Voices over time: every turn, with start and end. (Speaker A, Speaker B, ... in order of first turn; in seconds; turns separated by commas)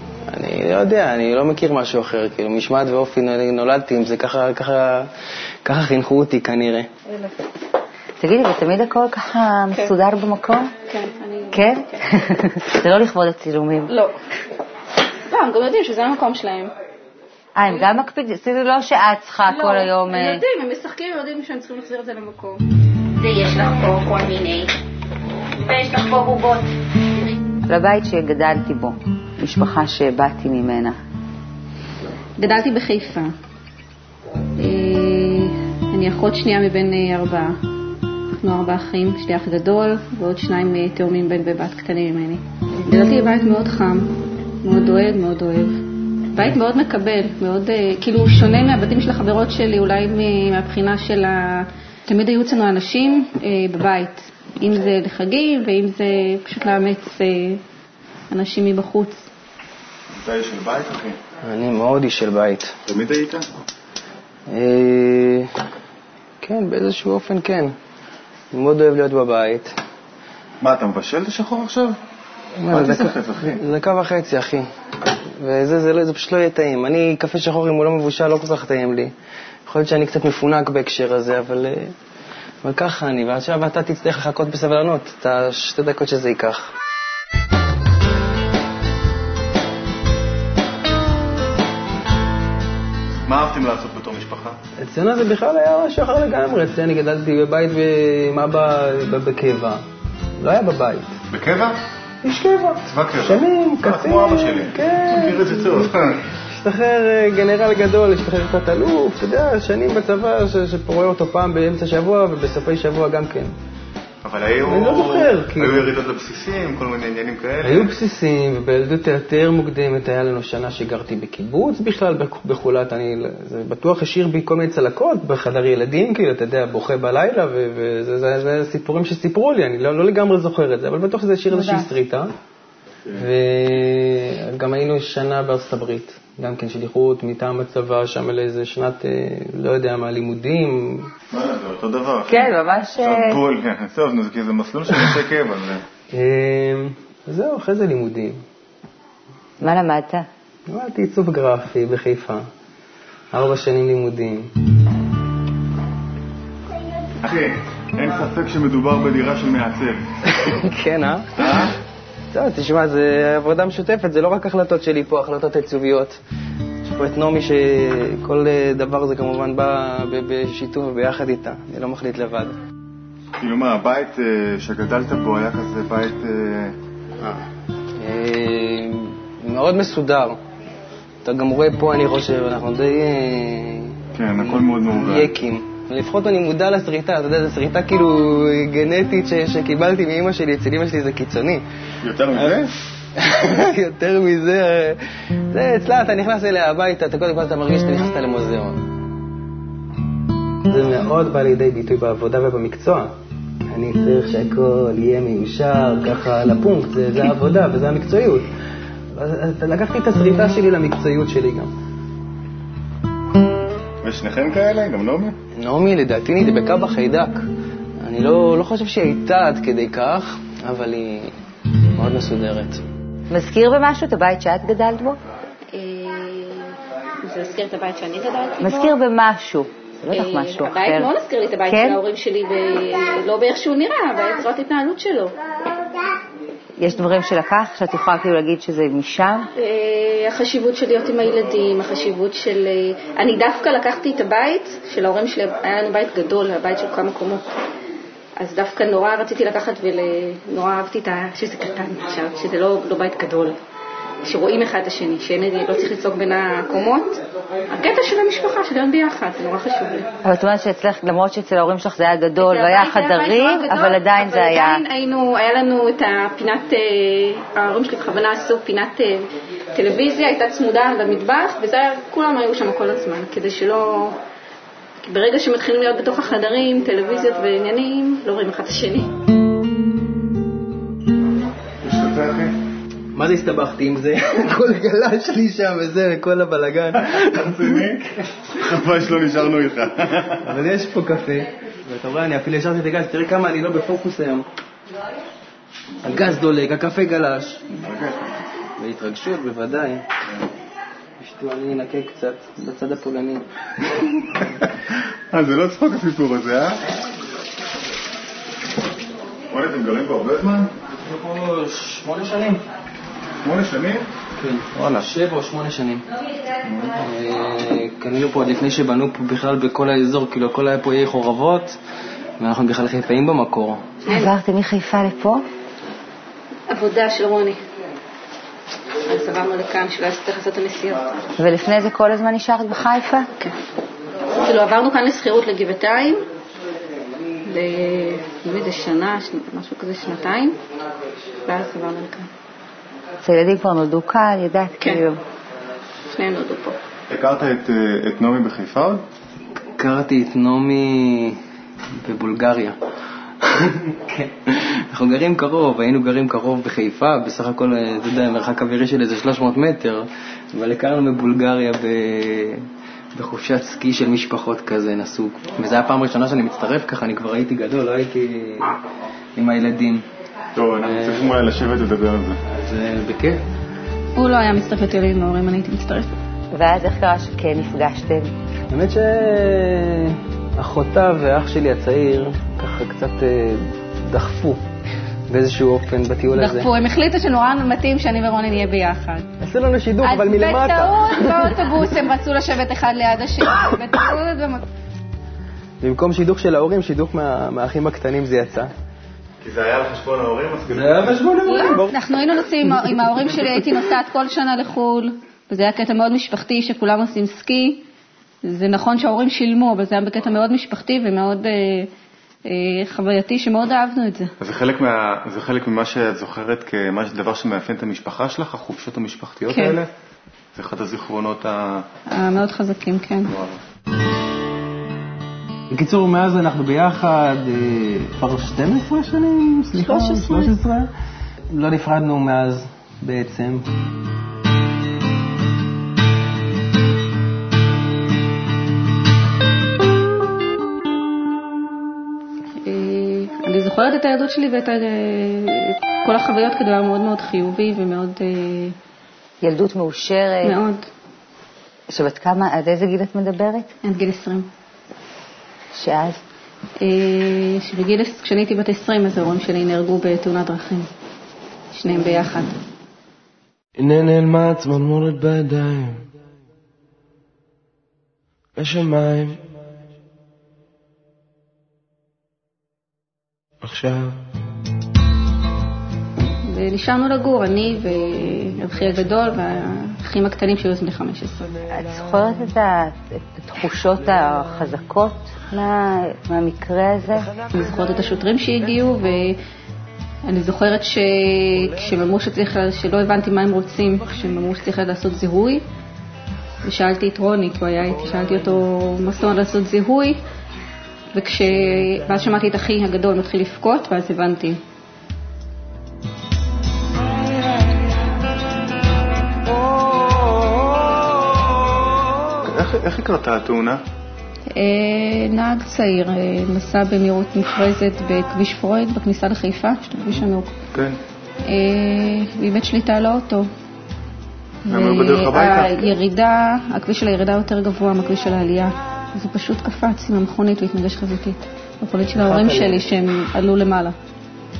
Speaker A: 0.3-5.1, Speaker A: 5.6-6.9, Speaker B: 8.2-10.7, Speaker C: 10.9-12.0, Speaker B: 11.5-13.9, Speaker C: 13.9-14.2, Speaker C: 15.3-16.7, Speaker B: 17.6-20.4, Speaker C: 19.4-24.8, Speaker C: 25.6-26.7, Speaker B: 27.7-31.0, Speaker C: 32.4-33.3, Speaker C: 34.6-37.6, Speaker C: 38.4-57.6, Speaker C: 58.3-59.2, Speaker D: 60.2-61.2, Speaker A: 61.4-62.7, Speaker D: 62.9-63.4, Speaker A: 64.5-65.5, Speaker A: 66.4-67.7, Speaker A: 68.5-69.7, Speaker D: 70.6-72.0, Speaker A: 72.6-74.7, Speaker D: 72.7-73.6, Speaker A: 75.3-79.1, Speaker A: 79.7-81.9, Speaker A: 82.6-86.7, Speaker D: 93.3-94.6, Speaker A: 94.8-99.8, Speaker A: 100.4-101.2, Speaker D: 101.3-101.8, Speaker A: 102.2-113.5, Speaker D: 102.9-106.2, Speaker D: 114.2-117.9, Speaker A: 114.6-115.9, Speaker A: 117.6-132.3, Speaker C: 131.5-131.9, Speaker A: 133.1-141.1, Speaker D: 141.3-145.8, Speaker B: 142.3-143.4, Speaker A: 146.1-148.4, Speaker B: 149.6-150.3, Speaker A: 150.7-152.5, Speaker A: 153.3-154.5, Speaker D: 157.2-160.5, Speaker A: 160.2-161.6, Speaker D: 161.4-161.7, Speaker A: 162.3-166.2, Speaker A: 166.8-172.6, Speaker D: 173.4-176.8, Speaker A: 177.2-177.4, Speaker A: 177.9-180.4, Speaker A: 181.2-191.6, Speaker D: 184.1-185.3, Speaker D: 192.0-192.7, Speaker A: 192.3-195.0, Speaker A: 195.5-198.9, Speaker A: 200.7-203.1, Speaker A: 203.7-208.5, Speaker A: 209.1-211.7, Speaker D: 214.0-215.3, Speaker A: 215.5-217.4, Speaker A: 218.0-221.3, Speaker A: 221.9-222.8, Speaker B: 223.3-225.2, Speaker C: 225.7-228.9, Speaker B: 228.6-231.1, Speaker C: 230.1-235.3, Speaker B: 231.7-232.0, Speaker B: 236.8-239.5, Speaker C: 239.6-247.4, Speaker C: 248.4-253.6, Speaker C: 254.2-257.2, Speaker C: 257.7-260.1, Speaker B: 260.2-264.8, Speaker C: 262.4-274.2, Speaker C: 275.0-279.1, Speaker D: 281.8-282.5, Speaker A: 283.1-288.0, Speaker D: 287.1-290.4, Speaker A: 290.4-294.4, Speaker A: 296.0-297.6, Speaker D: 297.8-298.3, Speaker A: 298.8-300.1, Speaker A: 301.2-303.4, Speaker D: 305.3-306.8, Speaker D: 309.5-310.7, Speaker A: 311.0-312.6, Speaker D: 313.4-314.1, Speaker A: 314.4-316.1, Speaker D: 314.7-315.1, Speaker D: 316.6-316.9, Speaker A: 316.9-321.8, Speaker A: 322.4-323.9, Speaker B: 324.1-325.4, Speaker C: 326.7-327.6, Speaker C: 329.1-331.3, Speaker B: 331.4-333.3, Speaker C: 334.4-336.2, Speaker C: 337.4-340.6, Speaker C: 341.4-342.3, Speaker B: 343.2-345.2, Speaker C: 346.1-346.8, Speaker D: 347.1-349.0, Speaker A: 349.7-351.4, Speaker A: 352.0-352.8, Speaker A: 353.4-368.7, Speaker A: 369.3-370.1, Speaker D: 370.6-372.4, Speaker A: 370.8-371.3, Speaker A: 372.5-373.4, Speaker C: 374.1-376.1, Speaker B: 376.5-378.3, Speaker A: 378.7-384.6, Speaker A: 385.3-386.7, Speaker C: 386.3-389.3, Speaker A: 389.4-391.7, Speaker C: 390.0-394.6, Speaker A: 395.8-398.7, Speaker D: 399.4-401.2, Speaker A: 400.7-402.0, Speaker C: 401.4-407.8, Speaker A: 402.6-403.1, Speaker C: 408.4-411.9, Speaker C: 412.4-414.3, Speaker D: 414.4-419.9, Speaker C: 419.5-419.8, Speaker D: 420.5-421.9, Speaker C: 422.1-423.3, Speaker D: 423.3-423.6, Speaker A: 425.7-430.9, Speaker C: 429.8-430.5, Speaker A: 431.5-433.7, Speaker C: 442.6-448.8, Speaker B: 449.4-450.6, Speaker C: 450.4-450.9, Speaker B: 451.9-453.7, Speaker C: 453.8-454.5, Speaker B: 455.7-456.2, Speaker C: 456.8-460.9, Speaker C: 461.7-462.6, Speaker E: 463.8-466.1, Speaker E: 468.6-469.4, Speaker E: 473.6-474.2, Speaker C: 476.4-481.5, Speaker B: 481.7-487.3, Speaker C: 487.5-489.4, Speaker C: 490.2-495.6, Speaker C: 496.6-500.2, Speaker C: 501.1-504.6, Speaker D: 512.4-513.8, Speaker C: 514.5-520.5, Speaker D: 520.7-521.0, Speaker C: 521.4-523.5, Speaker C: 524.6-533.9, Speaker D: 524.7-525.9, Speaker A: 532.1-532.8